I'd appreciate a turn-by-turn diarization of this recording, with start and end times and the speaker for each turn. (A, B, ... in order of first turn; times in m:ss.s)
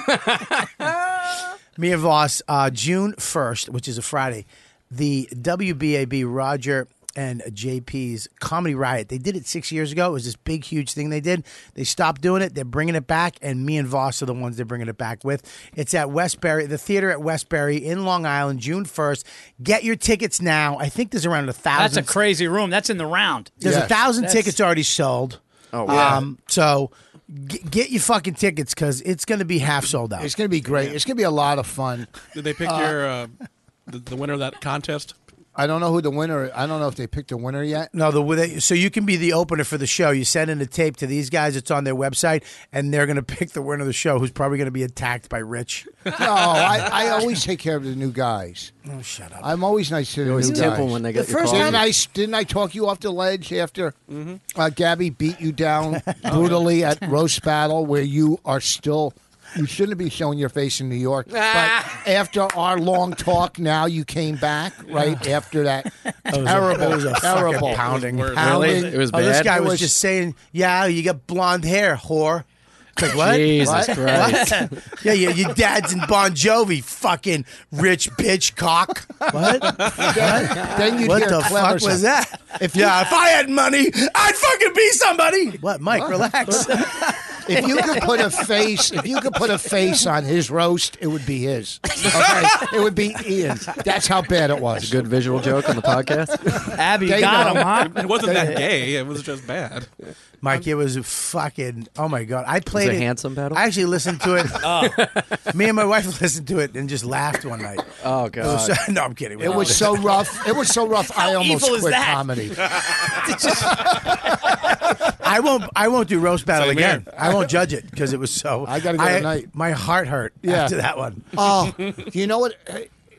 0:01.8-0:22.1 A
0:21.7-0:23.6 B
0:23.6-0:24.0 C
0:23.6-0:30.3 A
0:24.2-0:24.5 B
0:25.7-0:26.2 D
0:25.8-0:26.2 C
0:30.2-0:32.1 C
0:32.3-0:33.3 E
0:32.6-0:33.0 C
0:33.9-0:35.1 E
0:35.6-0:37.9 C
0:37.9-0:46.1 A
0:46.1-0:48.7 C
0:48.8-0:49.5 A
0:49.4-0:54.0 C
0:50.2-0:51.8 D
0:50.4-0:51.8 A
0:54.1-0:54.4 E
0:54.5-1:09.9 C
0:56.3-0:56.6 E
1:01.3-1:02.0 D
1:06.3-1:12.4 A
1:07.5-1:08.9 E
1:08.4-1:09.8 D
1:13.0-1:27.6 A
1:13.0-1:14.8 D
1:13.5-1:14.3 C
1:19.8-1:23.1 C
1:25.9-1:26.8 C
1:27.3-1:35.0 C
1:34.8-1:36.7 D
1:35.6-1:38.6 C
1:36.7-1:38.6 B
1:37.7-1:39.9 E
1:40.4-1:44.8 A
1:42.7-1:43.7 D
1:44.2-1:45.4 D
1:44.6-1:45.0 B
1:45.5-1:50.2 A
1:48.0-1:48.8 D
1:49.4-1:52.8 C
1:49.4-1:49.8 D
1:51.0-1:52.3 B
1:53.1-1:53.9 B
1:54.9-2:01.4 A
1:56.5-1:57.3 E
1:58.6-1:59.5 C
2:00.4-2:00.7 C
2:01.3-2:02.9 C